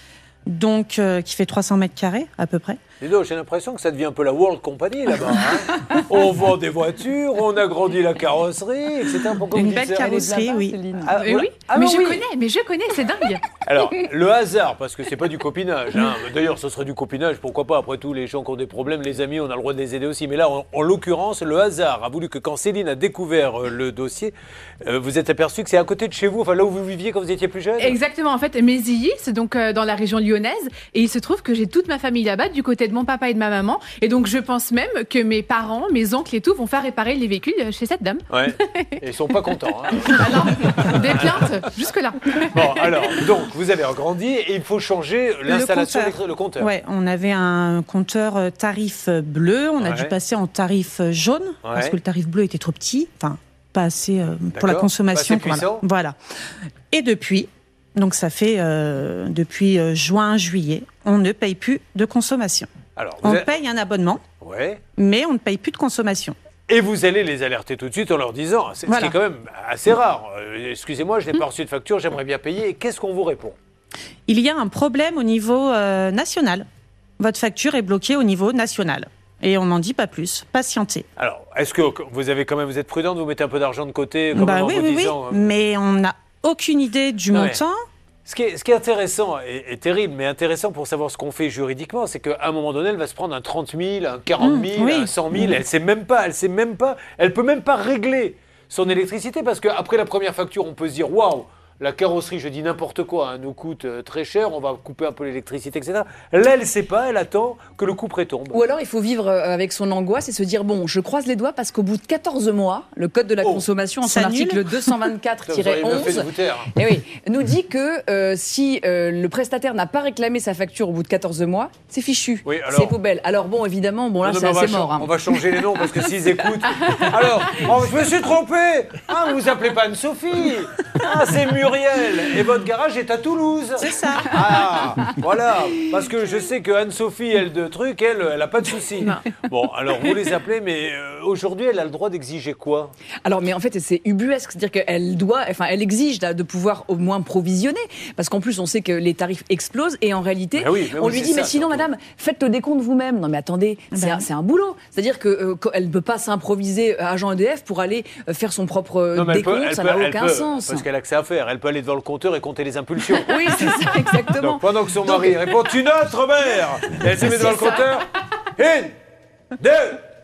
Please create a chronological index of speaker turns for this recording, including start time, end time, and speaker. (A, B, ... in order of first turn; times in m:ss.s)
0:00.5-0:02.8 A
0:03.0-0:10.3 B
0:09.5-0:11.1 A
0:11.0-0:12.2 B
0:11.1-0:13.4 C
0:13.6-0:28.0 B
0:27.8-0:38.8 C
0:38.3-0:40.4 B
0:40.0-0:43.0 C
0:41.1-0:41.4 B
0:42.5-0:46.7 B
0:45.4-0:56.2 A
0:49.8-0:50.1 B
0:51.6-0:52.0 B
0:54.5-0:55.8 B
0:56.9-1:02.7 A
1:03.0-1:03.5 B
1:03.2-1:04.2 A
1:04.4-1:04.8 B
1:05.0-1:06.3 A
1:06.7-1:13.5 B
1:08.8-1:09.1 A
1:14.3-1:16.6 A
1:17.2-1:21.0 A
1:21.2-1:25.5 B
1:24.3-1:27.8 A
1:27.3-1:27.6 B
1:28.2-1:48.6 B
1:34.4-1:35.6 A
1:48.5-2:05.4 D
1:54.0-1:54.9 A
1:55.4-1:56.7 B
2:02.4-2:03.0 B
2:04.2-2:22.9 B
2:13.8-2:14.4 A
2:23.2-2:40.8 D
2:30.6-2:31.9 B
2:33.9-2:34.2 A
2:39.1-2:43.7 B
2:43.1-2:45.6 D
2:44.3-2:48.9 B
2:47.1-2:47.8 D
2:49.6-2:50.1 B